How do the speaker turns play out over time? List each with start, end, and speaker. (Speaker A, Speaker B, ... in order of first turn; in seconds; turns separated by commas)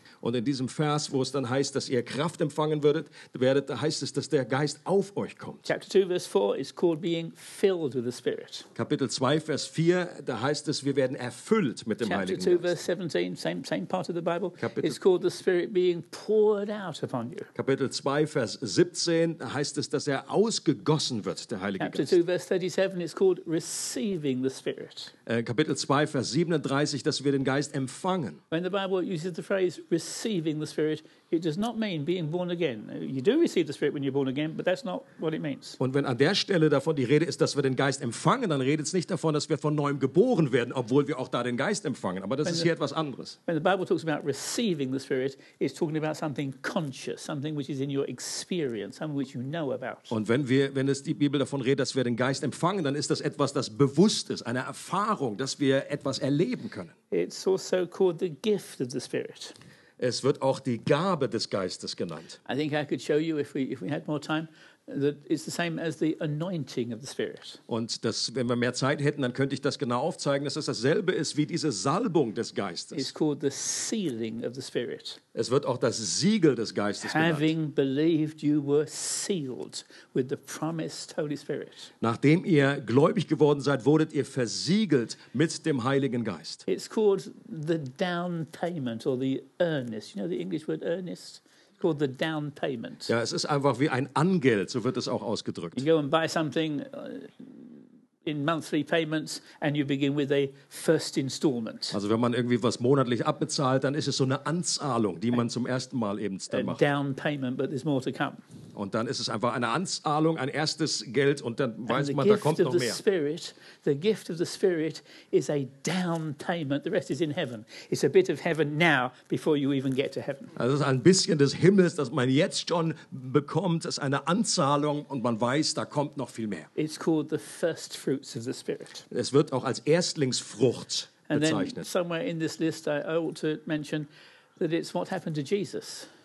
Speaker A: 0.2-5.7, Speaker B: 5.7-8.7, Speaker A: 8.7-12.7, Speaker B: 12.0-17.5, Speaker A: 14.6-15.0, Speaker A: 17.5-22.2, Speaker B: 21.8-25.1, Speaker A: 25.2-28.4, Speaker B: 28.5-35.8, Speaker A: 35.8-43.4, Speaker B: 43.5-50.1, Speaker A: 50.1-56.9, Speaker B: 57.1-59.5, Speaker A: 60.0-62.4, Speaker B: 62.5-67.6, Speaker A: 67.7-73.1, Speaker B: 72.9-75.2, Speaker A: 75.3-77.5, Speaker B: 77.0-81.9, Speaker A: 82.0-86.6, Speaker B: 86.7-93.1, Speaker A: 93.1-95.8, Speaker B: 95.8-102.0, Speaker A: 101.9-106.8, Speaker B: 106.5-108.4, Speaker A: 108.7-113.0, Speaker B: 111.9-120.5, Speaker A: 120.5-126.7, Speaker B: 126.8-129.1, Speaker A: 129.1-131.9, Speaker B: 131.3-134.1, Speaker B: 134.6-136.1